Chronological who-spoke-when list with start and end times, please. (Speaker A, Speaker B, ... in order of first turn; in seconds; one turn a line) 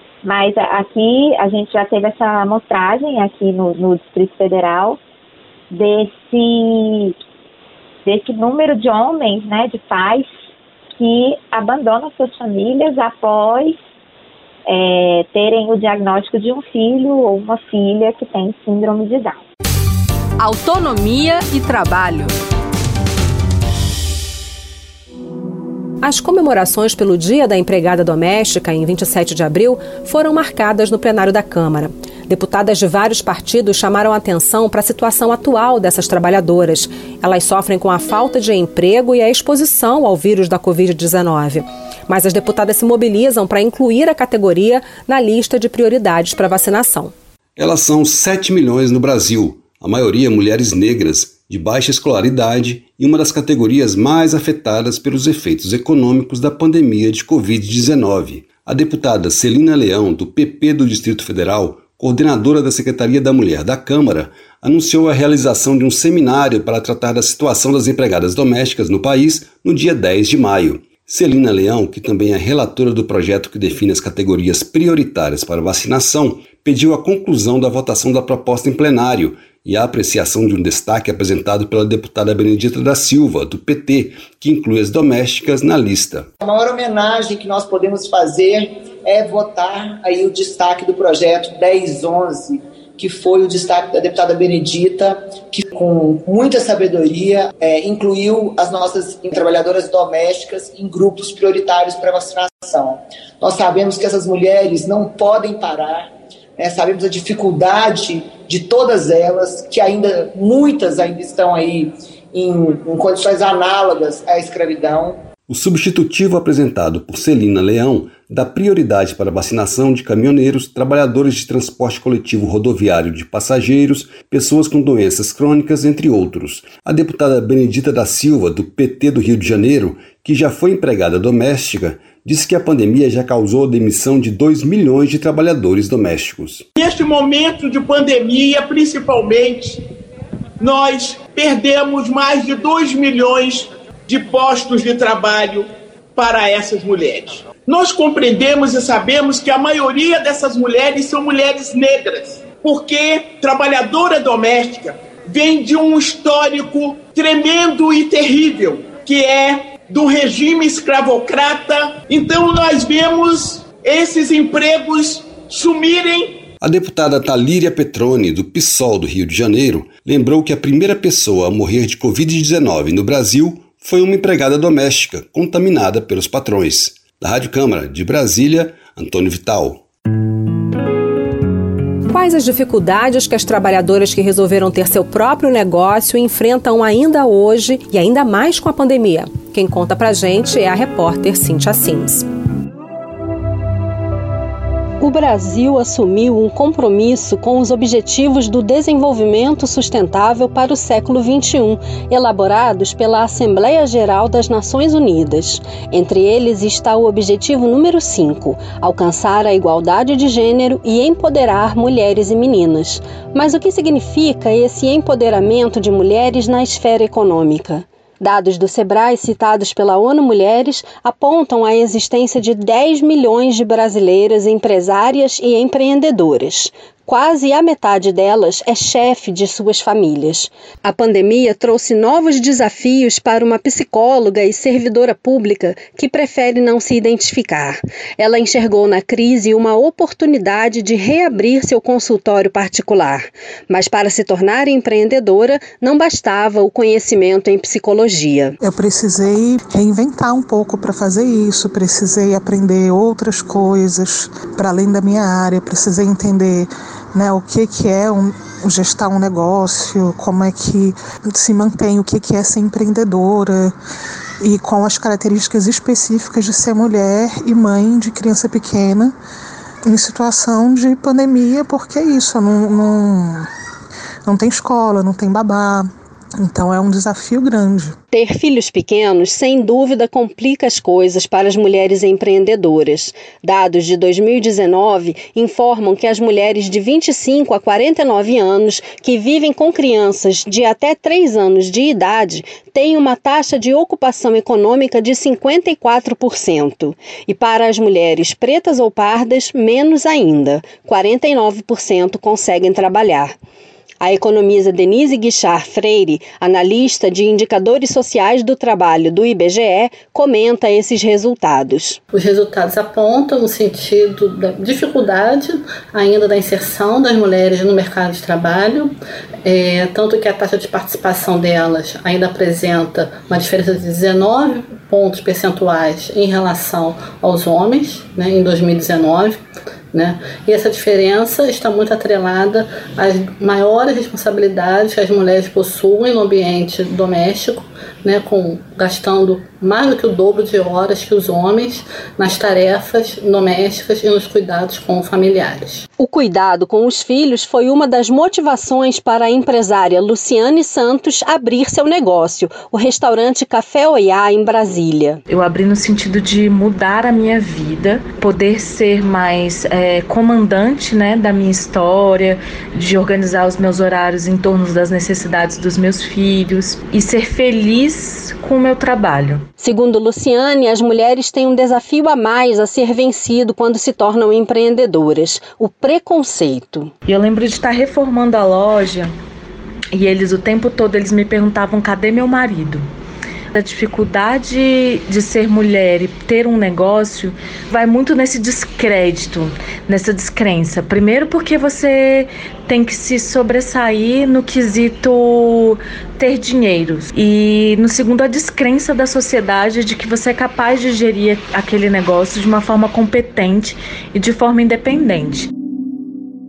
Speaker A: 0.2-5.0
Speaker A: 5.7-7.2
Speaker A: 8.1-10.3
Speaker A: 11.0-13.8
Speaker A: 14.7-19.4
Speaker B: 20.4-20.8
Speaker C: 26.0-47.1
Speaker D: 47.6-86.3
Speaker E: 86.4-115.2
Speaker D: 115.5-136.7
Speaker F: 136.8-139.8
Speaker F: 140.6-166.4
Speaker D: 166.6-179.8
Speaker C: 182.1-192.3
Speaker B: 195.0-248.5
Speaker G: 248.6-263.8
Speaker G: 264.4-269.1
Speaker G: 269.9-273.5
Speaker G: 274.2-275.9
Speaker G: 276.4-277.9
Speaker B: 278.1-303.3
Speaker B: 304.0-312.0
Speaker H: 312.1-329.4
Speaker H: 329.9-345.9
Speaker B: 346.0-355.2
Speaker I: 355.3-369.5
Speaker B: 369.7-376.8
Speaker I: 377.1-379.1
Speaker I: 379.9-382.8
Speaker I: 383.5-405.5